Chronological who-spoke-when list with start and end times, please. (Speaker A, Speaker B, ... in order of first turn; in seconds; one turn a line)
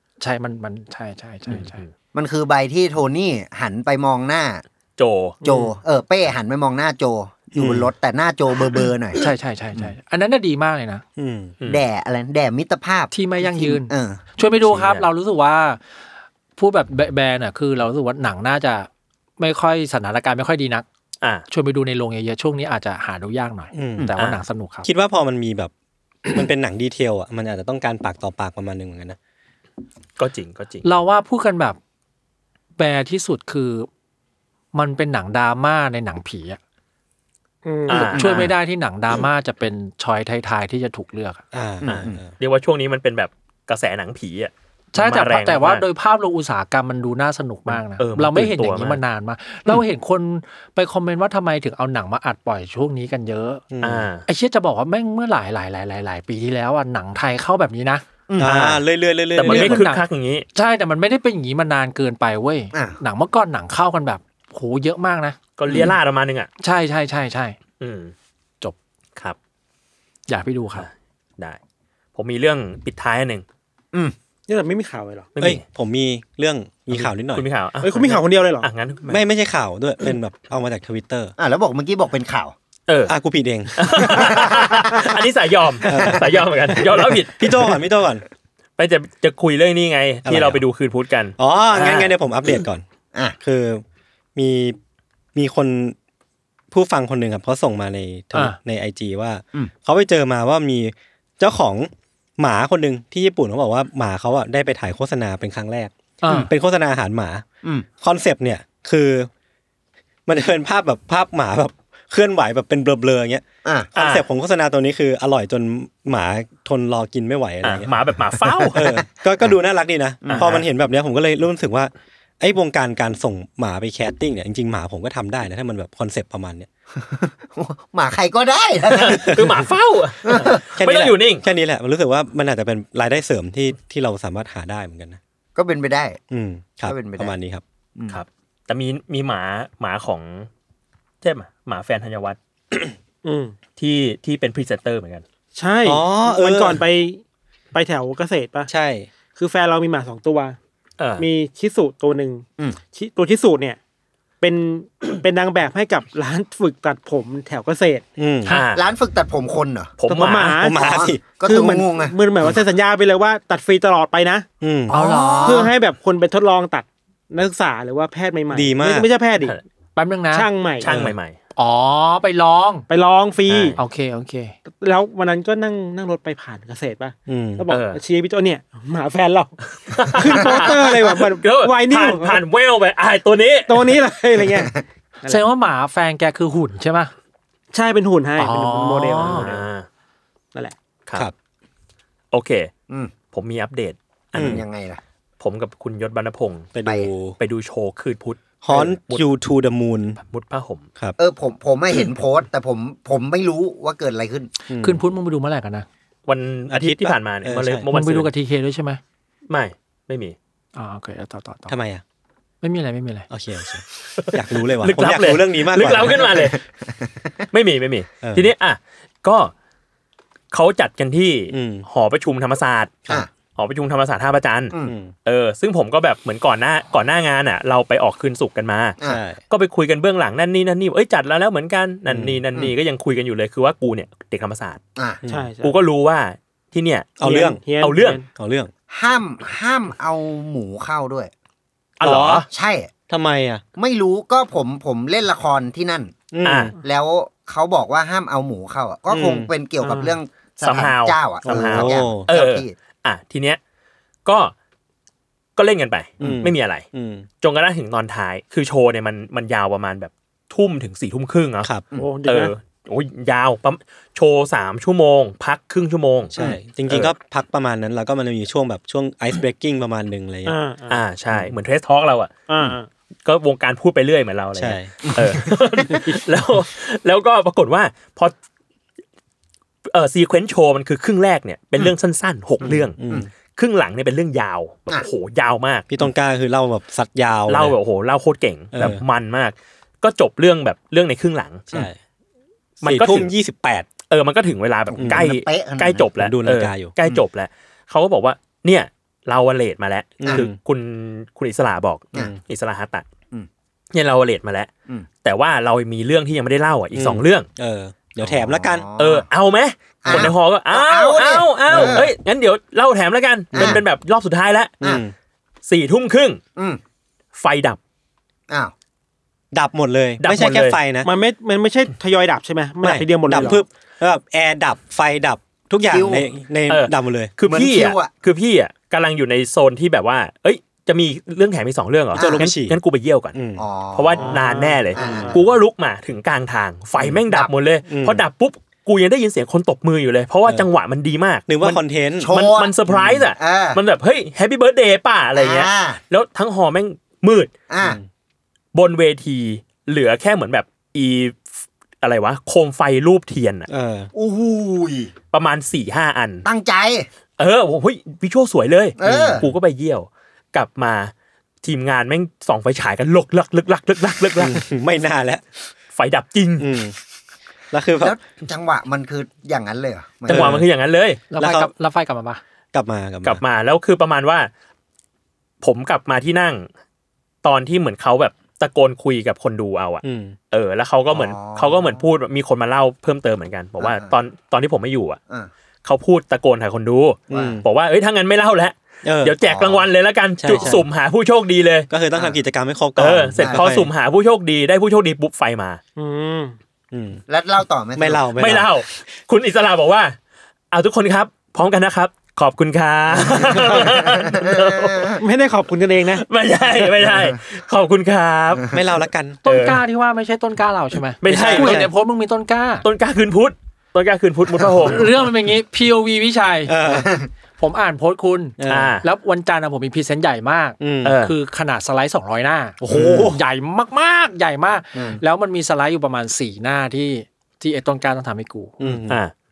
Speaker A: 0.2-1.8
Speaker B: 1.5-1.9
Speaker C: 2.1-4.6
Speaker B: 5.0-5.4
Speaker D: 5.4-5.7
Speaker C: 5.4-9.2
Speaker E: 7.5-7.9
Speaker A: 9.2-11.0
Speaker E: 11.2-11.5
Speaker C: 11.7-14.2
Speaker A: 13.1-15.8
Speaker B: 14.7-15.1
Speaker A: 16.6-20.9
Speaker A: 21.5-24.9
Speaker E: 23.7-24.1
Speaker B: 24.2-24.4
Speaker E: 24.8-25.7
Speaker E: 26.3-29.2
Speaker B: 30.2-30.9
Speaker A: 30.8-31.8
Speaker A: 32.8-33.9
Speaker A: 34.7-36.6
Speaker D: 37.6-38.2
Speaker B: 37.9-38.5
Speaker A: 37.9-41.4
Speaker C: 38.1-38.5
Speaker E: 41.5-42.3
Speaker C: 41.8-42.2
Speaker B: 41.9-45.8
Speaker A: 44.9-53.6
Speaker B: 48.0-49.0
Speaker E: 53.7-54.1
Speaker B: 53.8-54.2
Speaker A: 54.2-58.0
Speaker C: 58.3-58.8
Speaker E: 58.4-59.9
Speaker B: 59.4-60.5
Speaker A: 59.4-60.0
Speaker A: 60.5-65.4
Speaker B: 65.6-66.5
Speaker A: 66.6-67.6
Speaker B: 67.8-68.1
Speaker A: 70.3-70.9
Speaker B: 70.8-71.6
Speaker B: 72.1-73.4
Speaker D: 74.5-75.3
Speaker B: 75.3-75.6
Speaker E: 75.4-77.5
Speaker B: 76.9-79.2
Speaker D: 77.8-78.7
Speaker E: 79.1-81.3
Speaker C: 81.4-82.5
Speaker B: 82.9-83.1
Speaker E: 83.1-84.0
Speaker B: 83.8-87.8
Speaker C: 84.1-85.0
Speaker E: 85.8-86.3
Speaker E: 86.9-88.2
Speaker B: 88.8-92.1
Speaker E: 90.2-90.6
Speaker E: 91.4-92.8
Speaker E: 93.4-93.8
Speaker E: 94.3-94.8
Speaker E: 95.3-95.9
Speaker E: 96.7-107.4
Speaker A: 106.2-106.5
Speaker E: 108.0-109.3
Speaker E: 110.3-113.4
Speaker E: 113.9-117.9
Speaker B: 114.0-114.2
Speaker B: 117.6-118.9
Speaker E: 118.7-126.7
Speaker C: 120.2-120.6
Speaker B: 120.3-120.6
Speaker C: 127.0-129.4
Speaker B: 128.9-131.4
Speaker C: 130.2-130.6
Speaker E: 130.7-135.2
Speaker C: 135.5-136.2
Speaker E: 136.3-137.6
Speaker C: 136.8-137.3
Speaker B: 138.1-140.5
Speaker B: 141.2-142.4
Speaker D: 143.2-143.6
Speaker B: 143.8-145.2
Speaker D: 145.6-147.2
Speaker E: 145.8-146.8
Speaker D: 147.7-148.7
Speaker E: 148.7-149.1
Speaker D: 149.3-150.6
Speaker B: 151.0-151.3
Speaker D: 151.2-153.8
Speaker D: 154.4-158.1
Speaker E: 158.2-158.5
Speaker B: 158.5-158.8
Speaker C: 158.7-159.9
Speaker B: 160.0-160.6
Speaker D: 160.1-164.5
Speaker E: 160.4-161.4
Speaker C: 160.8-162.1
Speaker E: 164.6-164.9
Speaker A: 164.9-165.7
Speaker C: 164.9-165.7
Speaker D: 165.4-169.6
Speaker E: 168.5-169.1
Speaker A: 169.9-170.5
Speaker D: 170.3-170.9
Speaker B: 170.8-171.3
Speaker E: 170.9-171.1
Speaker A: 171.6-172.9
Speaker D: 172.9-173.8
Speaker B: 173.5-173.8
Speaker A: 173.8-174.5
Speaker D: 174.7-179.5
Speaker E: 177.3-177.6
Speaker B: 177.7-178.0
Speaker B: 179.9-183.9
Speaker D: 180.1-182.4
Speaker D: 183.7-185.4
Speaker A: 185.2-187.1
Speaker D: 187.7-189.6
Speaker A: 188.4-189.5
Speaker B: 189.2-189.9
Speaker B: 192.3-192.7
Speaker B: 193.3-194.6
Speaker E: 194.3-194.6
Speaker C: 194.3-195.0
Speaker B: 195.4-196.7
Speaker E: 196.7-197.4
Speaker B: 197.4-199.2
Speaker E: 198.6-200.2
Speaker B: 200.2-200.8
Speaker C: 201.2-204.5
Speaker E: 204.7-205.0
Speaker A: 204.7-205.9
Speaker B: 206.3-208.3
Speaker E: 206.7-207.9
Speaker A: 207.9-209.0
Speaker B: 209.5-210.3
Speaker A: 210.7-211.7
Speaker E: 211.7-212.0
Speaker A: 212.6-213.3
Speaker E: 213.3-216.5
Speaker B: 214.2-216.6
Speaker C: 216.2-217.3
Speaker B: 217.5-219.5
Speaker E: 218.2-218.5
Speaker B: 220.5-223.0
Speaker E: 221.5-221.8
Speaker B: 223.6-224.7
Speaker E: 224.8-225.1
Speaker B: 225.2-229.0
Speaker E: 229.0-229.4
Speaker B: 229.5-234.8
Speaker E: 232.1-232.4
Speaker E: 235.2-235.5
Speaker D: 235.3-235.8
Speaker B: 235.6-237.2
Speaker E: 237.2-237.6
Speaker D: 237.2-238.3
Speaker B: 237.8-238.2
Speaker E: 238.3-238.7
Speaker C: 238.9-241.3
Speaker B: 242.0-242.4
Speaker E: 242.0-242.4
Speaker C: 242.5-242.9
Speaker E: 243.1-243.6
Speaker C: 243.8-246.2
Speaker E: 246.3-246.7
Speaker B: 246.4-246.7
Speaker C: 246.8-252.7
Speaker E: 249.1-249.5
Speaker D: 249.8-250.2
Speaker B: 250.6-253.6
Speaker E: 251.4-252.3
Speaker B: 254.2-254.5
Speaker B: 255.6-256.9
Speaker E: 256.2-257.2
Speaker B: 257.4-261.7
Speaker D: 261.9-262.5
Speaker B: 262.2-266.3
Speaker E: 266.3-270.6
Speaker B: 266.9-267.1
Speaker D: 270.4-271.0
Speaker B: 270.9-272.3
Speaker D: 272.5-272.9
Speaker B: 273.2-278.3
Speaker E: 274.6-275.4
Speaker B: 279.9-283.0
Speaker E: 282.6-283.3
Speaker B: 283.6-285.9
Speaker E: 285.9-287.7
Speaker B: 287.5-291.7
Speaker E: 288.7-289.0
Speaker E: 291.7-292.0
Speaker B: 292.8-293.3
Speaker E: 292.8-293.9
Speaker B: 294.1-303.1
Speaker C: 294.9-296.1
Speaker E: 294.9-295.2
Speaker E: 296.2-296.9
Speaker E: 300.2-300.6
Speaker B: 303.9-304.7
Speaker B: 305.2-307.5
Speaker E: 306.9-308.9
Speaker C: 308.2-309.2
Speaker B: 309.0-314.7
Speaker C: 310.0-312.1
Speaker E: 311.7-312.0
Speaker C: 313.5-313.8
Speaker E: 314.8-315.1
Speaker B: 315.6-316.4
Speaker B: 317.3-317.8
Speaker E: 319.5-321.1
Speaker B: 320.2-320.8
Speaker D: 321.0-323.6
Speaker E: 322.8-327.3
Speaker C: 325.8-326.3
Speaker B: 326.7-333.3
Speaker C: 327.4-328.1
Speaker C: 332.1-332.4
Speaker E: 332.1-332.8
Speaker E: 333.3-333.6
Speaker C: 333.6-334.4
Speaker B: 333.9-347.5
Speaker D: 334.2-335.4
Speaker C: 334.9-335.4
Speaker E: 337.9-338.2
Speaker E: 341.5-342.3
Speaker C: 342.2-343.8
Speaker C: 345.3-346.0
Speaker C: 347.7-348.0
Speaker B: 348.7-351.4
Speaker B: 352.0-353.7
Speaker E: 353.7-354.1
Speaker C: 354.1-355.1
Speaker B: 355.3-356.4
Speaker C: 356.4-357.1
Speaker B: 357.4-361.1
Speaker C: 359.0-359.4
Speaker E: 359.0-359.5
Speaker B: 361.6-364.6
Speaker E: 364.4-365.4
Speaker B: 365.9-366.7
Speaker E: 366.6-366.9
Speaker E: 367.7-368.1
Speaker C: 368.0-370.6
Speaker B: 370.3-371.2
Speaker E: 370.3-370.6
Speaker A: 371.3-372.4
Speaker E: 371.4-371.7
Speaker E: 372.7-373.4
Speaker B: 373.2-374.5
Speaker B: 375.6-376.7
Speaker B: 377.4-385.2
Speaker E: 380.0-380.3
Speaker C: 381.1-382.0
Speaker C: 383.8-384.1
Speaker B: 385.8-391.9
Speaker E: 387.3-387.6
Speaker C: 387.3-387.6
Speaker E: 389.0-389.3
Speaker C: 389.4-389.9
Speaker E: 390.4-390.9
Speaker E: 391.9-393.9
Speaker B: 393.0-395.8
Speaker C: 393.4-393.7
Speaker D: 396.0-396.6
Speaker E: 396.9-397.2
Speaker C: 397.3-398.2
Speaker E: 398.0-398.7
Speaker B: 398.4-400.1
Speaker B: 400.7-405.1
Speaker C: 403.6-405.2
Speaker D: 405.2-406.2
Speaker B: 406.1-408.7
Speaker E: 408.7-409.4
Speaker A: 409.4-412.9
Speaker B: 409.4-409.8
Speaker B: 411.2-411.9
Speaker E: 411.2-411.9
Speaker B: 412.8-415.1
Speaker A: 414.8-416.8
Speaker E: 416.6-417.2
Speaker A: 417.6-428.9
Speaker E: 418.6-419.0
Speaker B: 418.7-419.0
Speaker E: 420.8-421.2
Speaker B: 421.0-421.3
Speaker E: 422.8-423.4
Speaker C: 422.9-423.2
Speaker C: 424.9-425.2
Speaker E: 428.8-429.2